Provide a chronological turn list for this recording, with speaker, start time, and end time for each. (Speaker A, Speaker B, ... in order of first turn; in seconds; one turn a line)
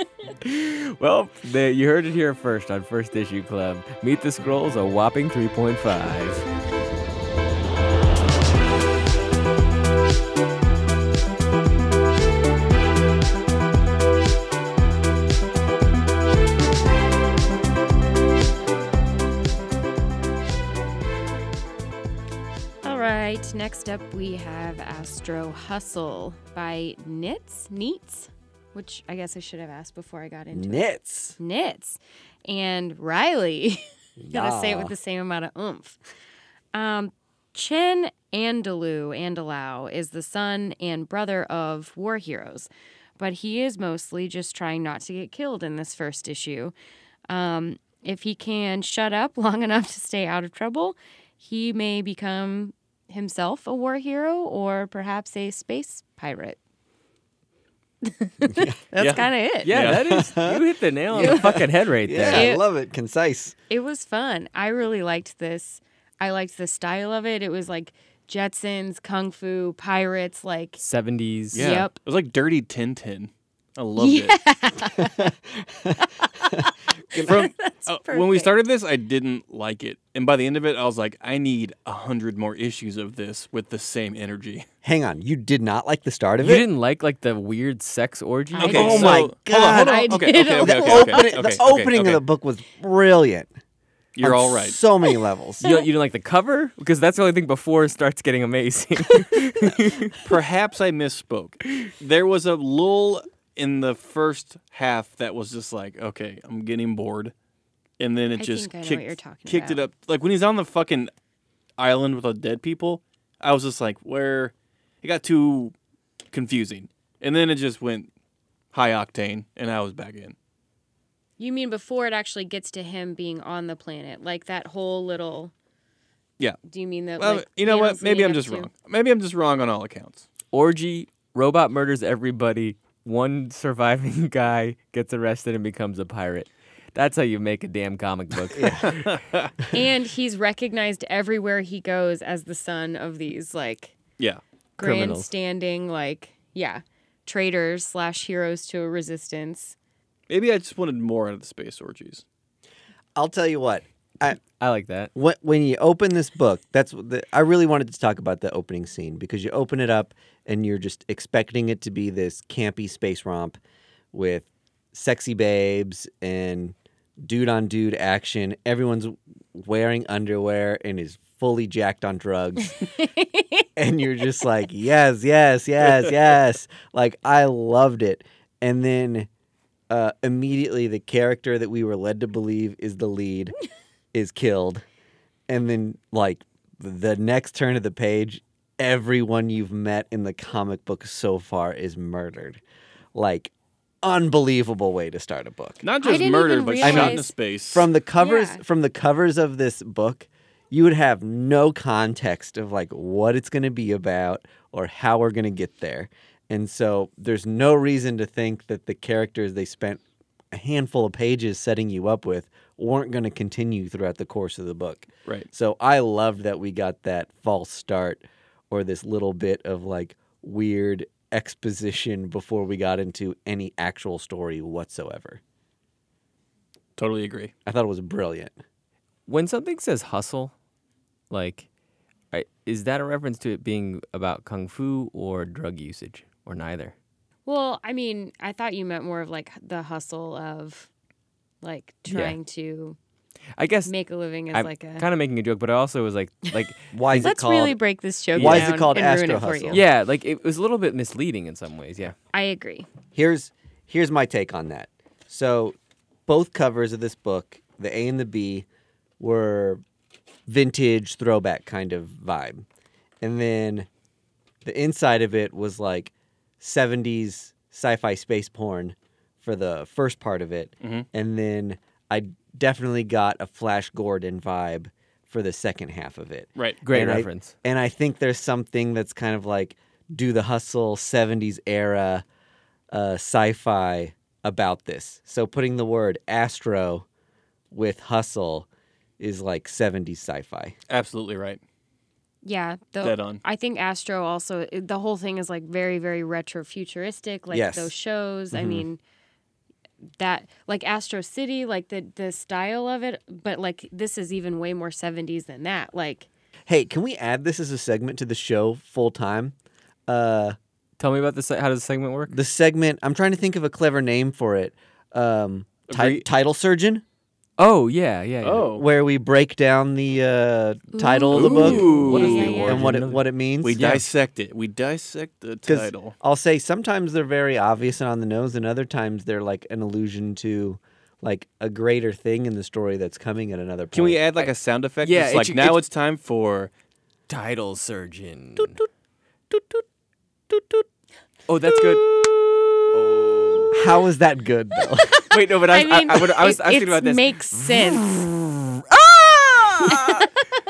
Speaker A: 0.4-6.4
Speaker B: 22.8-30.9
Speaker C: 30.5-31.4
Speaker B: 31.4-36.0
Speaker C: 34.2-34.9
Speaker B: 36.7-46.7
Speaker B: 47.3-56.6
Speaker B: 58.0-59.7
Speaker C: 58.5-58.8
Speaker D: 59.0-60.0
Speaker A: 59.6-62.5
Speaker C: 59.8-63.5
Speaker B: 61.1-61.6
Speaker B: 62.2-62.6
Speaker B: 63.7-70.8
Speaker A: 70.8-71.8
Speaker D: 71.5-74.3
Speaker B: 71.5-71.9
Speaker B: 74.0-75.3
Speaker C: 75.0-77.4
Speaker B: 76.0-78.5
Speaker D: 77.2-84.7
Speaker C: 84.8-86.6
Speaker A: 86.4-89.2
Speaker B: 88.5-91.4
Speaker D: 88.5-92.2
Speaker C: 88.6-93.5
Speaker D: 94.1-94.8
Speaker C: 94.2-95.6
Speaker A: 95.6-100.2
Speaker D: 100.2-107.3
Speaker D: 108.0-111.1
Speaker B: 108.4-109.8
Speaker D: 111.8-115.7
Speaker D: 116.3-118.1
Speaker D: 118.7-120.3
Speaker B: 121.4-125.5
Speaker B: 126.6-128.7
Speaker D: 127.2-130.2
Speaker A: 130.5-139.1
Speaker C: 138.5-138.9
Speaker D: 138.8-139.5
Speaker B: 139.7-143.9
Speaker B: 144.8-149.7
Speaker A: 144.8-145.3
Speaker D: 150.3-152.2
Speaker C: 153.2-154.4
Speaker A: 154.6-155.1
Speaker C: 155.1-163.6
Speaker C: 164.1-172.7
Speaker B: 172.6-173.7
Speaker C: 173.8-179.3
Speaker C: 179.9-183.5
Speaker C: 184.1-184.8
Speaker C: 185.5-192.6
Speaker C: 193.1-195.8
Speaker D: 195.8-197.9
Speaker B: 196.0-197.3
Speaker C: 196.8-225.4
Speaker B: 198.2-198.6
Speaker D: 227.0-227.5
Speaker C: 227.7-228.5
Speaker A: 229.3-230.5
Speaker A: 231.3-231.7
Speaker A: 232.3-236.9
Speaker B: 237.4-240.9
Speaker B: 241.6-243.0
Speaker A: 242.1-242.3
Speaker A: 243.6-243.9
Speaker B: 243.8-245.1
Speaker A: 244.5-247.3
Speaker C: 246.9-247.8
Speaker B: 247.2-249.8
Speaker C: 248.3-249.8
Speaker A: 248.3-248.9
Speaker A: 249.7-252.1
Speaker B: 252.3-252.9
Speaker C: 253.1-255.7
Speaker C: 256.3-258.6
Speaker C: 259.2-259.8
Speaker C: 260.5-262.6
Speaker C: 263.2-263.9
Speaker C: 264.6-282.2
Speaker A: 276.8-277.5
Speaker C: 282.9-287.1
Speaker C: 287.7-288.7
Speaker C: 289.2-290.7
Speaker D: 290.9-291.6
Speaker B: 292.4-299.0
Speaker D: 293.0-293.4
Speaker C: 297.5-297.9
Speaker C: 298.5-298.9
Speaker B: 300.2-306.3
Speaker C: 306.7-309.5
Speaker C: 310.1-310.6
Speaker A: 311.0-312.4
Speaker C: 312.3-317.0
Speaker D: 315.9-316.2
Speaker A: 317.6-318.7
Speaker D: 318.4-318.8
Speaker C: 318.8-323.8
Speaker B: 320.9-322.9
Speaker D: 321.3-322.8
Speaker A: 321.6-324.0
Speaker D: 323.6-326.1
Speaker C: 325.6-334.2
Speaker D: 333.9-336.7
Speaker A: 335.0-335.8
Speaker A: 337.3-338.8
Speaker D: 340.5-340.8
Speaker A: 341.5-342.1
Speaker A: 342.9-343.8
Speaker C: 343.7-345.2
Speaker A: 345.3-350.3
Speaker B: 345.4-348.1